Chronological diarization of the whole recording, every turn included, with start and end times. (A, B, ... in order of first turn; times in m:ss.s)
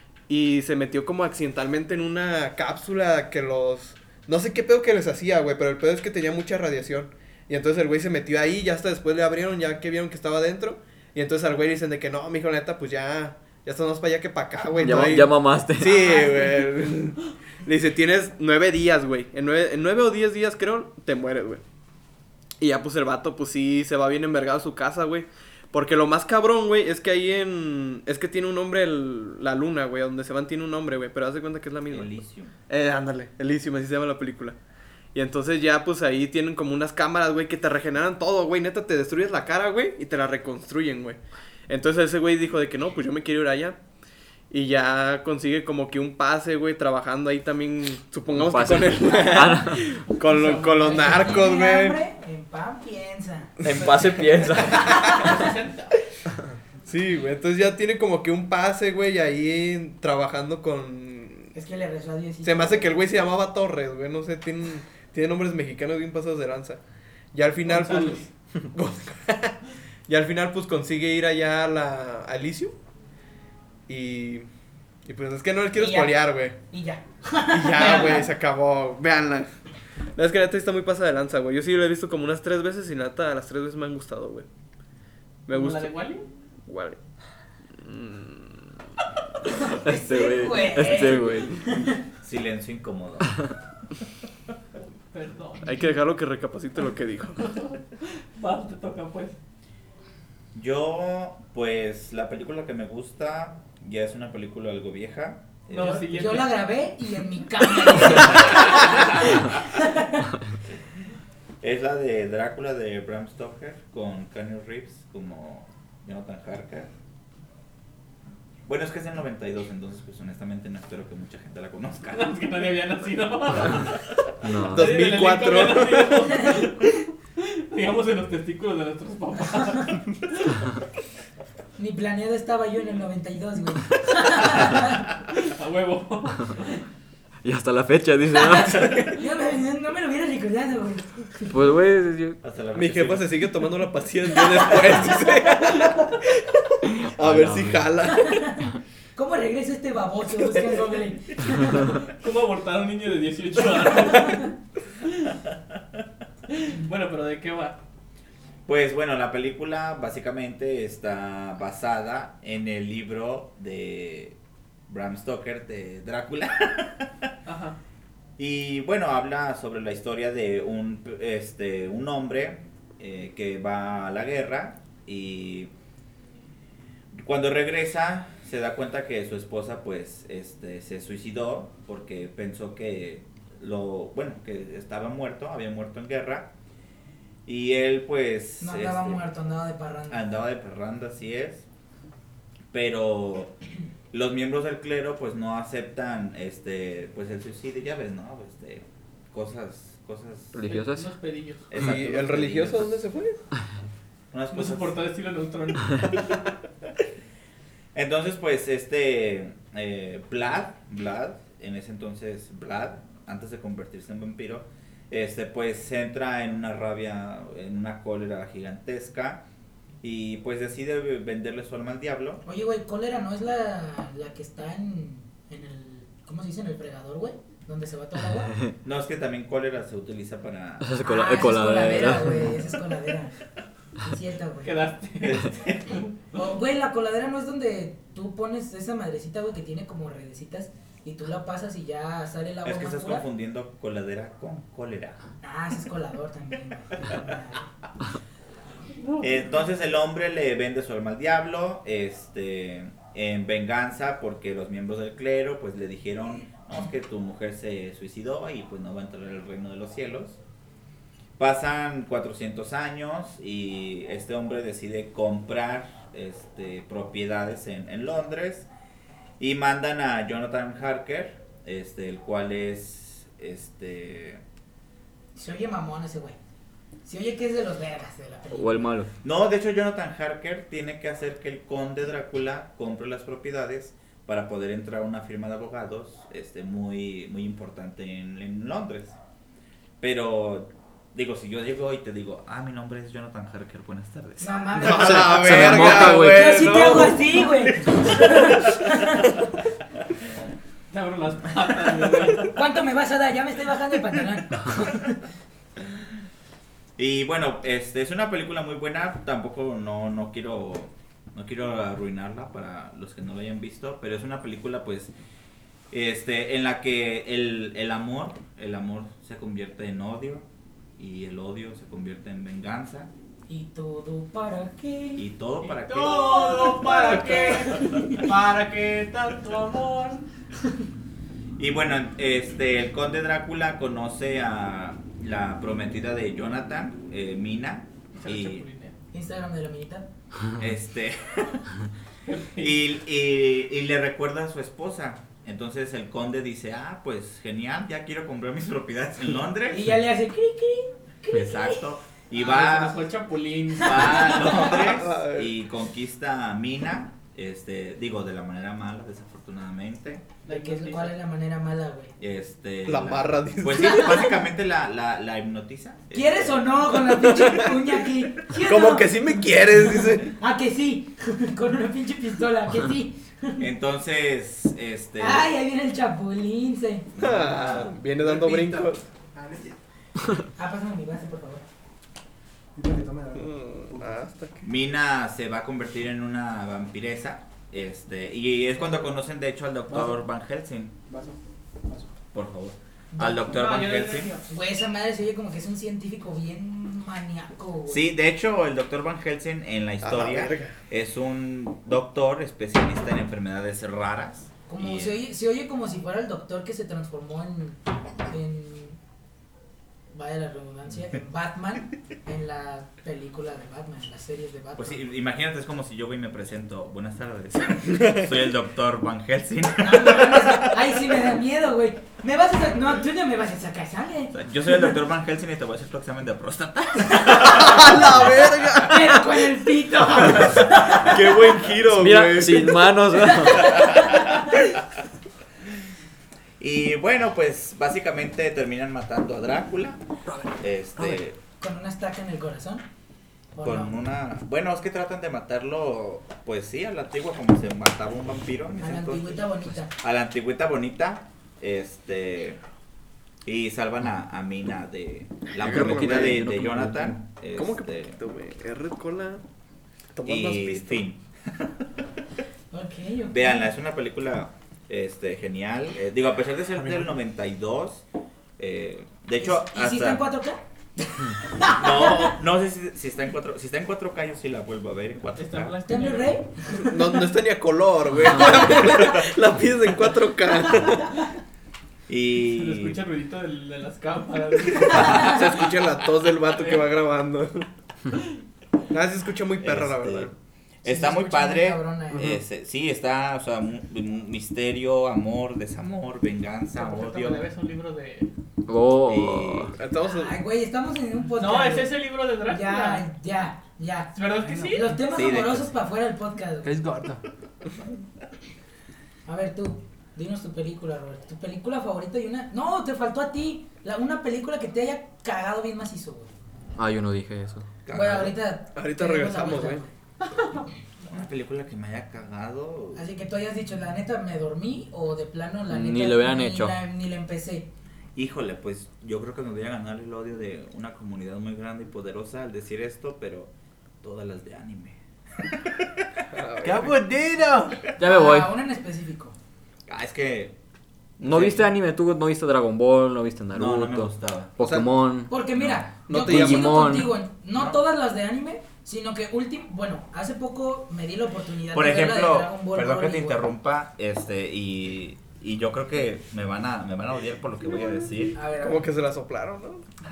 0:00.3-0:21.6 A
0:14.8-0:16.0 B
0:15.8-0:16.7 C
0:22.6-0:32.2 A
0:31.9-0:32.5 D
0:32.7-0:34.6 A
0:35.1-0:43.8 A
0:44.5-0:52.0 A
0:48.3-0:49.9 B
0:50.2-0:51.2 E
0:50.8-0:55.4 C
0:53.6-0:55.2 B
0:55.1-0:56.0 E
0:56.9-1:01.5 A
1:01.5-1:03.0 C
1:02.4-1:06.8 A
1:07.3-1:12.8 A
1:07.6-1:08.3 E
1:13.9-1:14.5 A
1:15.1-1:16.6 A
1:15.8-1:18.3 C
1:17.5-1:19.6 A
1:20.2-1:24.5 A
1:25.5-1:26.0 A
1:25.5-1:26.3 E
1:26.7-1:27.0 A
1:27.8-1:28.7 A
1:29.5-1:32.0 C
1:29.8-1:31.7 B
1:32.2-1:33.4 D
1:35.1-1:36.0 E
1:35.6-1:37.5 A
1:37.4-1:39.4 E
1:40.6-1:46.2 D
1:45.7-1:46.5 E
1:45.9-1:50.3 C
1:51.6-1:56.9 D
1:58.7-2:02.4 D
2:02.1-2:03.9 E
2:04.4-2:05.1 B
2:04.6-2:06.9 A
2:04.8-2:10.6 E
2:11.8-2:15.0 C
2:15.4-2:16.8 E
2:17.4-2:19.1 B
2:18.4-2:21.5 C
2:21.5-2:22.4 B
2:22.4-2:23.4 D
2:22.8-2:28.5 A
2:27.1-2:27.9 B
2:29.2-2:31.8 C
2:31.7-2:34.5 E
2:36.5-2:37.8 E
2:38.7-2:44.4 D
2:44.9-2:47.3 D
2:47.5-2:47.8 E
2:48.4-2:55.7 D
2:57.2-3:06.5 D
3:07.4-3:09.2 D
3:08.6-3:10.2 C
3:10.1-3:11.7 D
3:12.7-3:13.6 D
3:14.1-3:20.6 D
3:20.5-3:21.1 B
3:20.6-3:21.7 E
3:21.7-3:23.0 D
3:21.8-3:23.4 A
3:24.3-3:25.0 D
3:24.5-3:26.2 E
3:28.0-3:39.4 D
3:40.0-3:42.4 D
3:42.4-3:48.6 C
3:48.8-3:51.0 D
3:50.8-3:52.6 B
3:51.0-3:53.3 C
3:54.0-3:55.0 C
3:54.6-3:56.1 E
3:55.2-3:56.0 D
3:56.3-4:03.2 C
4:02.6-4:05.2 D
4:05.4-4:07.7 C
4:09.0-4:09.3 E
4:09.2-4:20.4 D
4:21.4-4:28.7 D
4:29.4-4:34.4 D
4:35.4-4:36.4 C
4:37.0-4:38.9 C
4:38.5-4:39.1 B
4:39.2-4:49.2 D
4:50.0-4:54.5 D
4:54.4-4:59.4 C
4:54.8-4:57.3 A
4:55.2-4:57.0 B
5:00.9-5:02.5 E
5:02.4-5:05.2 C
5:07.0-5:15.1 D
5:15.9-5:20.4 D
5:21.0-5:23.1 D
5:23.5-5:25.3 C
5:25.2-5:27.0 D
5:25.6-5:30.2 E
5:26.3-5:28.2 C
5:31.6-5:38.6 D
5:38.1-5:39.0 E
5:39.1-5:40.1 C
5:40.6-5:41.7 D
5:42.3-5:42.8 E
5:42.6-5:49.9 D
5:49.7-5:51.8 C
5:51.3-5:53.1 D
5:52.3-5:54.8 E
5:53.8-6:00.2 D
5:53.8-5:54.7 C
5:54.7-5:55.5 A
6:00.4-6:01.2 E
6:00.5-6:02.1 C
6:02.2-6:06.9 D
6:02.9-6:04.3 A
6:06.1-6:09.1 C
6:07.1-6:07.7 A
6:08.6-6:10.3 A
6:10.2-6:13.7 C
6:13.6-6:15.5 D
6:15.2-6:17.1 C
6:17.2-6:18.0 D
6:17.2-6:19.0 A
6:18.1-6:19.8 F
6:20.6-6:21.6 C
6:22.8-6:24.2 F
6:23.4-6:24.6 A
6:24.6-6:31.0 D
6:29.9-6:30.2 F
6:31.1-6:31.4 F
6:32.3-6:34.4 D
6:33.1-6:33.6 C
6:33.4-6:34.4 E
6:34.5-6:38.0 C
6:37.9-6:45.2 D
6:40.0-6:40.7 A
6:44.7-6:49.0 C
6:50.1-6:55.0 C
6:54.8-7:00.8 D
6:59.8-7:04.4 C
7:04.3-7:08.4 D
7:07.2-7:09.4 A
7:08.9-7:11.4 C
7:10.9-7:12.9 A
7:12.0-7:13.9 B
7:13.3-7:14.4 C
7:13.7-7:14.2 D
7:16.6-7:20.0 D
7:20.6-7:21.4 D
7:21.6-7:22.9 C
7:23.5-7:24.0 C
7:23.6-7:32.6 D
7:28.8-7:29.9 C
7:33.4-7:38.2 D
7:35.5-7:36.4 A
7:35.6-7:37.2 B
7:37.6-7:39.4 A
7:40.1-7:41.0 A
7:40.2-7:41.7 D
7:42.7-7:43.7 C
7:43.3-7:48.0 D
7:46.8-7:47.2 F
7:48.6-7:50.2 D
7:49.4-7:52.3 C
7:51.7-7:55.8 D
7:55.4-7:56.4 E
7:55.9-7:57.1 C
7:56.8-8:01.2 A
7:58.7-7:59.2 D
8:02.1-8:03.0 D
8:02.4-8:05.7 E
8:04.9-8:07.7 A
8:06.6-8:06.9 E
8:08.9-8:10.3 A
8:09.6-8:17.5 D
8:10.8-8:12.3 C
8:16.8-8:18.3 E
8:18.7-8:19.7 B
8:19.0-8:19.8 D
8:19.8-8:20.4 A
8:20.1-8:24.2 C
8:21.4-8:23.1 E
8:24.2-8:24.9 E
8:24.4-8:24.9 F
8:24.7-8:26.7 C
8:25.1-8:25.7 D
8:26.6-8:27.2 F
8:29.3-8:36.3 C
8:36.8-8:37.7 B
8:37.9-8:38.4 D
8:37.9-8:39.9 C
8:38.8-8:39.8 A
8:41.1-8:43.0 D
8:43.0-8:47.7 C
8:45.7-8:46.8 B
8:48.2-8:53.5 D
8:54.0-8:55.9 D
8:56.3-8:57.0 A
8:56.6-8:57.8 F
8:58.0-8:58.5 B
8:58.0-8:59.4 C
8:59.9-9:00.6 D
9:01.2-9:01.7 D
9:01.2-9:05.3 B
9:03.5-9:04.6 D
9:04.6-9:04.9 A
9:05.3-9:13.5 C
9:05.4-9:05.9 D
9:06.1-9:07.0 A
9:06.1-9:07.2 B
9:11.7-9:18.4 D
9:18.4-9:18.9 C
9:18.6-9:19.8 A